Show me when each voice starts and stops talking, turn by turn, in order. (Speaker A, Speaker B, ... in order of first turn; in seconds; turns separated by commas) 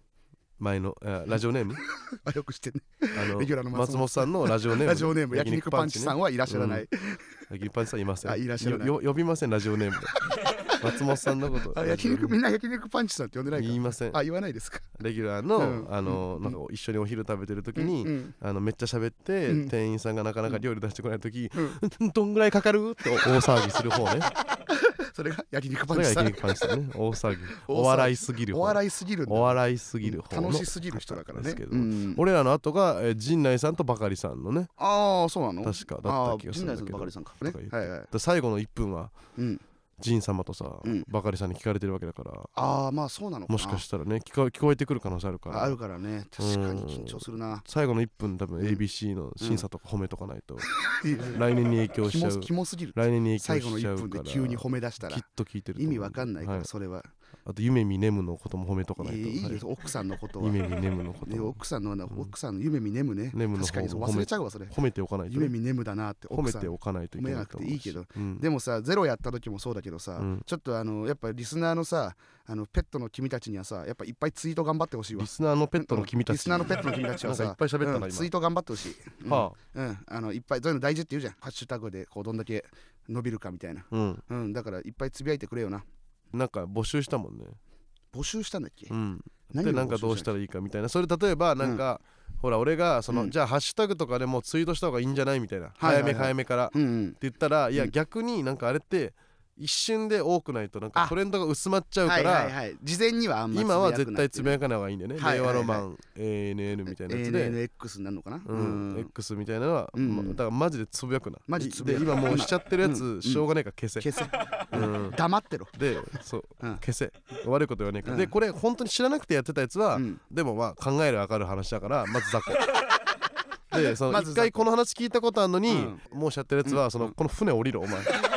Speaker A: 0.6-1.8, Speaker B: 1.9-7.4, Speaker A: 3.1-6.8, Speaker A: 7.5-12.3, Speaker B: 8.2-8.9, Speaker B: 10.2-11.0, Speaker B: 11.7-14.9, Speaker A: 13.6-14.2, Speaker A: 15.0-24.3, Speaker B: 15.6-16.6, Speaker B: 17.8-18.3, Speaker B: 19.5-19.7, Speaker B: 21.5-21.8, Speaker B: 23.2-23.7, Speaker B: 24.5-26.8, Speaker A: 25.9-34.7, Speaker B: 27.5-32.2, Speaker B: 34.8-38.1, Speaker A: 35.6-39.1, Speaker B: 39.4-39.6, Speaker A: 40.0-42.5, Speaker B: 42.5-43.8, Speaker A: 43.5-45.8, Speaker B: 45.5-47.6, Speaker A: 46.4-50.7, Speaker B: 49.4-49.6, Speaker B: 50.8-51.5, Speaker A: 51.2-56.7, Speaker B: 52.0-55.2, Speaker B: 55.8-57.1, Speaker A: 57.5-59.6, Speaker B: 59.0-60.6, Speaker A: 60.4-61.6, Speaker B: 61.2-64.7, Speaker A: 63.3-65.5, Speaker B: 65.3-85.8, Speaker A: 66.3-68.4, Speaker A: 70.2-70.4, Speaker A: 75.1-78.3, Speaker A: 79.2-79.5, Speaker A: 83.9-84.2, Speaker A: 86.3-87.6, Speaker B: 88.1-88.9, Speaker A: 88.9-102.5, Speaker B: 89.5-90.3, Speaker B: 95.8-97.2, Speaker B: 102.0-104.6, Speaker A: 103.5-107.6, Speaker B: 105.2-105.8, Speaker B: 106.9-109.1, Speaker A: 108.5-114.1, Speaker B: 109.9-110.4, Speaker B: 111.5-113.5, Speaker B: 114.0-115.8, Speaker A: 114.7-115.2, Speaker A: 115.7-122.7, Speaker B: 118.0-118.3, Speaker B: 119.9-120.2, Speaker A: 123.7-128.2, Speaker B: 123.7-124.7, Speaker B: 125.7-126.0, Speaker B: 126.6-127.1